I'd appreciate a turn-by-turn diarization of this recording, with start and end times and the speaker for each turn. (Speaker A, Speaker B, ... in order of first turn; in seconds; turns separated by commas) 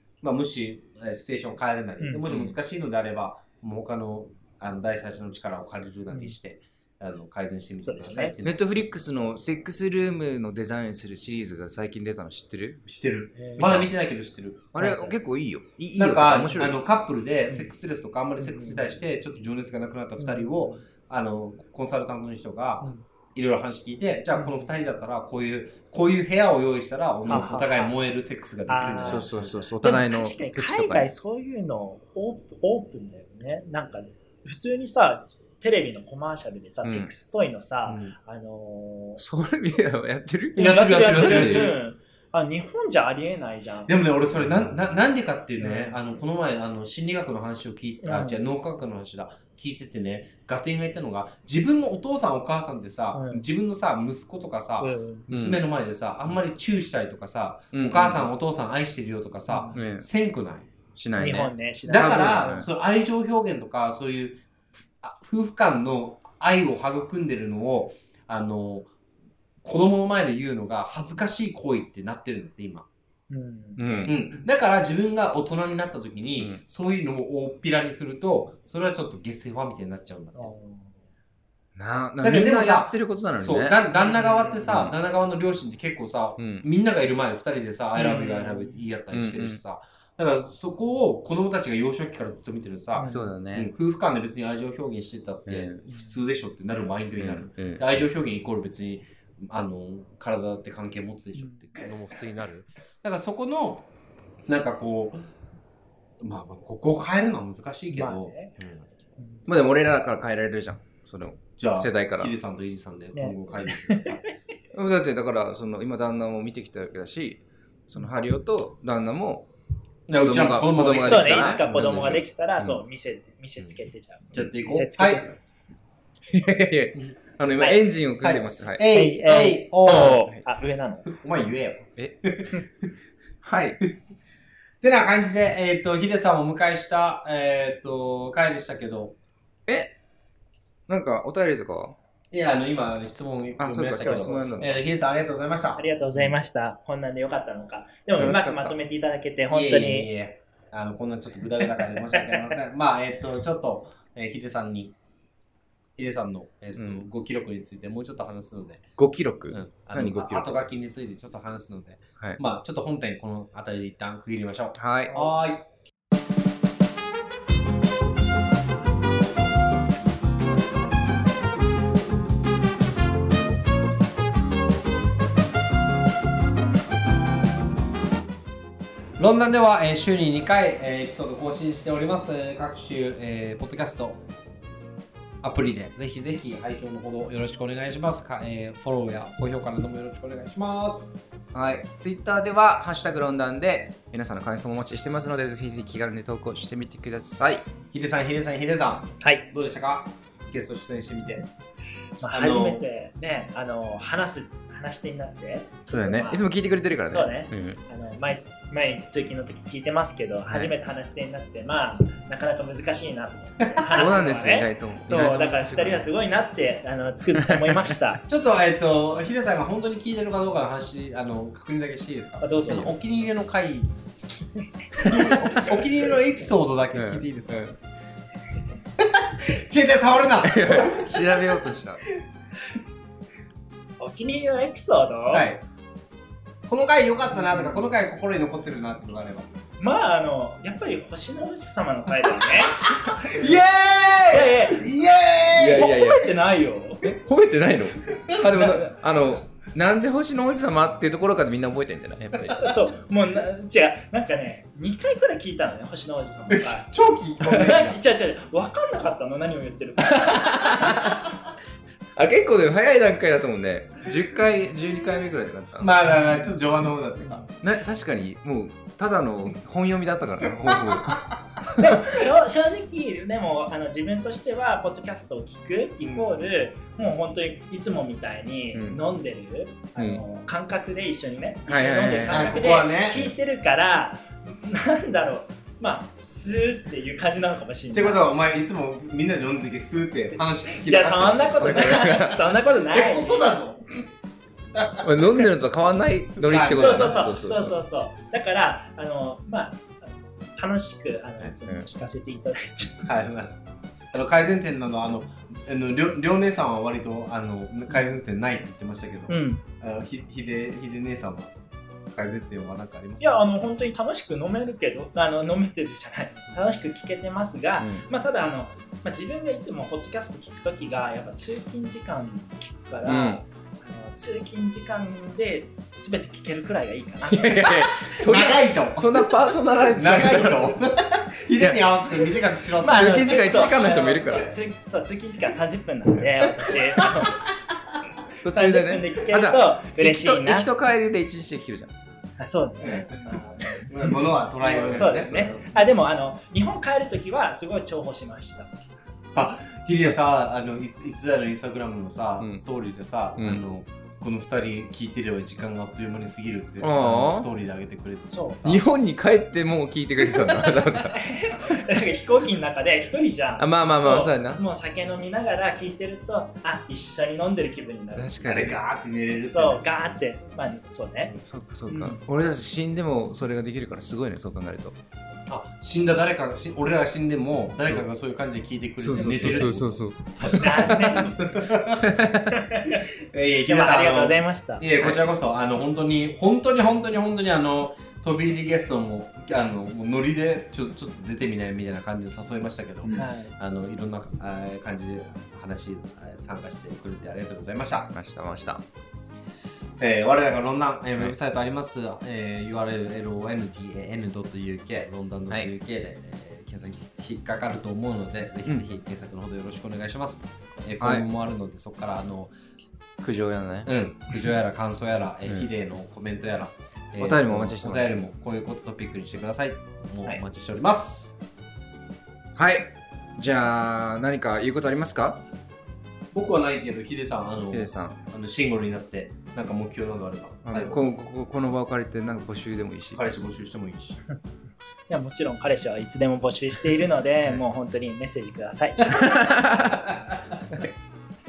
Speaker A: 0.2-8.6, Speaker B: 2.2-2.5, Speaker C: 6.1-6.3, Speaker C: 7.8-8.3, Speaker B: 8.4-12.9, Speaker A: 12.9-14.7, Speaker C: 13.3-13.7, Speaker B: 13.6-13.9, Speaker B: 14.7-16.8, Speaker C: 14.8-15.2, Speaker A: 15.9-29.6, Speaker C: 17.5-17.7, Speaker C: 18.4-18.9, Speaker C: 20.2-20.8, Speaker C: 24.3-24.7, Speaker C: 27.3-27.9, Speaker C: 28.7-39.2, Speaker B: 29.0-31.1, Speaker B: 36.8-37.1, Speaker A: 37.9-38.1, Speaker B: 39.2-41.6, Speaker A: 40.5-41.8, Speaker C: 40.5-43.9, Speaker A: 43.9-60.7, Speaker C: 45.6-46.0, Speaker C: 48.0-48.4, Speaker C: 53.1-53.4, Speaker C: 54.8-55.3, Speaker B: 55.3-55.6, Speaker B: 57.7-58.3, Speaker C: 59.5-59.8, Speaker B: 59.7-60.1, Speaker B: 60.9-62.7, Speaker C: 61.2-62.5, Speaker A: 61.9-68.9, Speaker A: 69.6-72.9, Speaker C: 73.3-74.2, Speaker B: 73.8-74.2, Speaker A: 74.0-80.5, Speaker C: 80.3-81.0, Speaker B: 81.8-83.8, Speaker A: 82.2-103.9, Speaker C: 83.9-84.7, Speaker B: 84.7-84.9, Speaker B: 86.4-86.7, Speaker C: 88.0-88.8, Speaker B: 89.1-89.6, Speaker C: 92.9-93.3, Speaker B: 93.0-93.7, Speaker B: 95.5-95.8, Speaker C: 95.9-96.2, Speaker B: 97.2-97.8, Speaker C: 101.3-101.7, Speaker A: 104.5-105.2, Speaker A: 106.2-108.9, Speaker C: 107.9-108.5, Speaker C: 109.2-109.4, Speaker B: 109.5-112.3, Speaker A: 111.6-114.2, Speaker C: 113.1-114.3, Speaker B: 114.7-119.5, Speaker A: 120.1-122.1, Speaker B: 120.1-122.8, Speaker C: 121.0-125.3, Speaker A: 124.3-125.3, Speaker B: 126.3-128.8, Speaker A: 128.2-130.3, Speaker C: 128.9-131.1, Speaker A: 131.1-132.6, Speaker B: 133.4-133.8, Speaker A: 134.8-139.2, Speaker B: 139.7-139.9, Speaker B: 140.9-142.0, Speaker A: 142.3-145.8, Speaker B: 143.6-144.8, Speaker C: 145.8-150.1, Speaker B: 148.1-148.8, Speaker A: 149.5-154.9, Speaker C: 151.9-152.5, Speaker A: 156.0-158.9, Speaker B: 156.8-157.0, Speaker B: 159.0-160.6, Speaker A: 159.5-165.6, Speaker B: 164.8-165.1, Speaker C: 165.1-165.4, Speaker A: 179.2-184.2, Speaker A: 185.4-191.2, Speaker B: 191.5-197.7, Speaker A: 197.9-201.5, Speaker C: 199.2-199.5, Speaker C: 202.2-206.4, Speaker A: 202.2-202.8, Speaker B: 205.9-207.8, Speaker C: 207.1-218.2, Speaker B: 210.5-210.7, Speaker A: 213.6-214.1, Speaker B: 213.9-216.1, Speaker B: 217.5-217.8, Speaker A: 218.3-224.0, Speaker C: 222.4-222.9, Speaker A: 224.9-227.6, Speaker B: 226.9-227.7, Speaker A: 229.0-231.1, Speaker B: 230.4-232.0, Speaker C: 234.0-235.5, Speaker A: 235.3-235.6, Speaker A: 236.7-239.6, Speaker C: 237.3-237.8, Speaker C: 239.8-243.5, Speaker A: 242.9-245.9, Speaker C: 244.3-244.9, Speaker B: 245.5-246.4, Speaker C: 245.7-247.1, Speaker B: 247.0-252.7, Speaker C: 252.6-256.9, Speaker A: 256.5-258.0, Speaker C: 257.4-260.9, Speaker B: 257.5-257.9, Speaker B: 260.1-261.2, Speaker B: 262.1-265.9, Speaker A: 265.8-267.5, Speaker C: 267.2-267.5, Speaker B: 267.6-271.8, Speaker A: 270.6-271.3, Speaker C: 271.8-288.3, Speaker B: 278.7-279.0, Speaker B: 279.9-280.2, Speaker B: 281.7-282.6, Speaker A: 282.3-283.3, Speaker A: 287.9-292.1, Speaker C: 290.7-293.5, Speaker B: 291.6-292.6, Speaker A: 292.9-293.9, Speaker A: 294.7-295.5, Speaker B: 295.0-297.8, Speaker A: 296.4-297.3, Speaker C: 296.6-303.3, Speaker B: 301.4-301.9, Speaker A: 303.1-311.5, Speaker C: 309.3-309.6, Speaker A: 312.1-313.4, Speaker C: 313.2-328.1, Speaker B: 317.8-318.0, Speaker B: 323.0-323.4, Speaker B: 327.3-330.9, Speaker A: 328.1-329.2, Speaker A: 329.9-333.2, Speaker B: 331.6-331.9, Speaker C: 332.8-337.4, Speaker B: 332.8-334.5, Speaker B: 338.4-341.9, Speaker C: 338.4-340.7, Speaker C: 342.4-348.7, Speaker A: 342.8-345.6, Speaker B: 344.8-345.7, Speaker A: 349.3-358.8, Speaker B: 353.4-353.6, Speaker B: 356.8-357.5, Speaker C: 358.3-358.6, Speaker B: 358.6-361.8, Speaker C: 361.1-368.8, Speaker B: 363.6-364.6, Speaker B: 368.1-368.8, Speaker A: 368.4-370.1, Speaker C: 369.4-371.4, Speaker B: 371.4-374.9, Speaker C: 371.9-372.2, Speaker A: 375.5-382.1, Speaker B: 379.0-381.3, Speaker C: 380.5-381.4, Speaker B: 382.0-382.6, Speaker C: 382.5-383.0, Speaker A: 382.9-398.1, Speaker C: 383.7-384.8, Speaker C: 393.1-393.5, Speaker B: 398.1-398.8, Speaker A: 400.0-412.5, Speaker B: 411.0-411.2, Speaker B: 413.2-414.5, Speaker A: 413.9-421.4, Speaker B: 417.2-418.1, Speaker B: 422.6-425.4, Speaker A: 426.3-431.0, Speaker B: 427.7-428.2, Speaker B: 430.6-433.2, Speaker A: 433.1-434.2, Speaker C: 435.1-439.4, Speaker B: 439.1-440.1